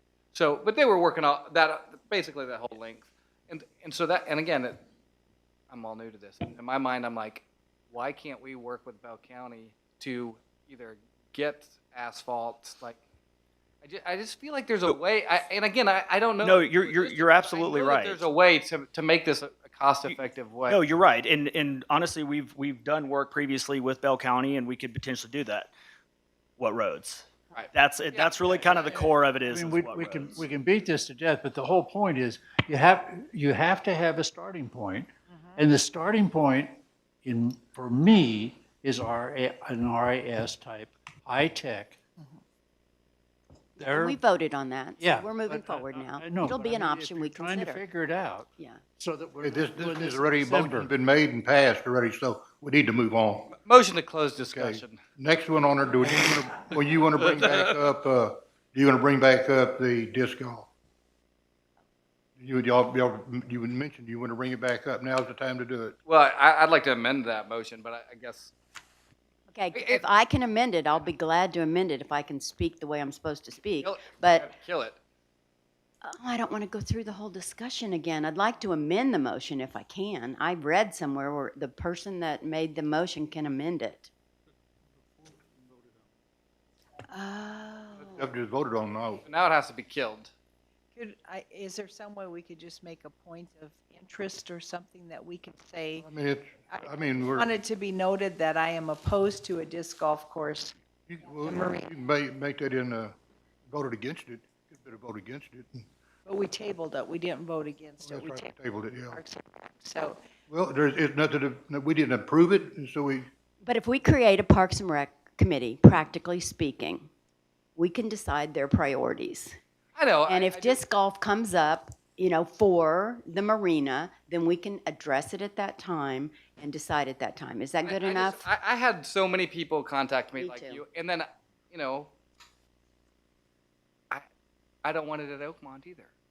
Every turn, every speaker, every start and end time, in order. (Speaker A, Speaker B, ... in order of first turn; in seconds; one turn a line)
Speaker A: 0.3-4.8
Speaker A: 5.7-13.0
Speaker A: 13.8-20.8
Speaker B: 16.4-18.2
Speaker B: 20.7-25.7
Speaker B: 26.6-30.5
Speaker A: 27.6-29.4
Speaker C: 29.5-42.0
Speaker D: 35.3-35.6
Speaker C: 43.8-44.1
Speaker E: 43.8-47.8
Speaker C: 45.0-48.5
Speaker C: 49.0-50.8
Speaker F: 49.4-53.6
Speaker A: 53.7-55.0
Speaker F: 54.5-60.7
Speaker A: 57.2-57.6
Speaker F: 62.4-66.0
Speaker A: 66.1-68.5
Speaker E: 69.5-74.5
Speaker A: 69.7-70.1
Speaker A: 73.8-75.0
Speaker E: 76.0-84.1
Speaker E: 87.1-88.2
Speaker F: 88.2-89.2
Speaker A: 89.2-90.3
Speaker D: 90.9-96.1
Speaker F: 96.0-97.5
Speaker D: 96.7-100.7
Speaker F: 101.1-103.2
Speaker D: 101.4-101.8
Speaker F: 103.7-105.8
Speaker D: 106.2-108.6
Speaker F: 108.0-109.2
Speaker D: 109.1-110.2
Speaker F: 110.5-113.3
Speaker E: 113.6-117.1
Speaker E: 117.8-119.5
Speaker A: 120.0-120.8
Speaker E: 120.3-128.4
Speaker A: 127.8-132.1
Speaker E: 130.4-130.8
Speaker A: 134.8-136.1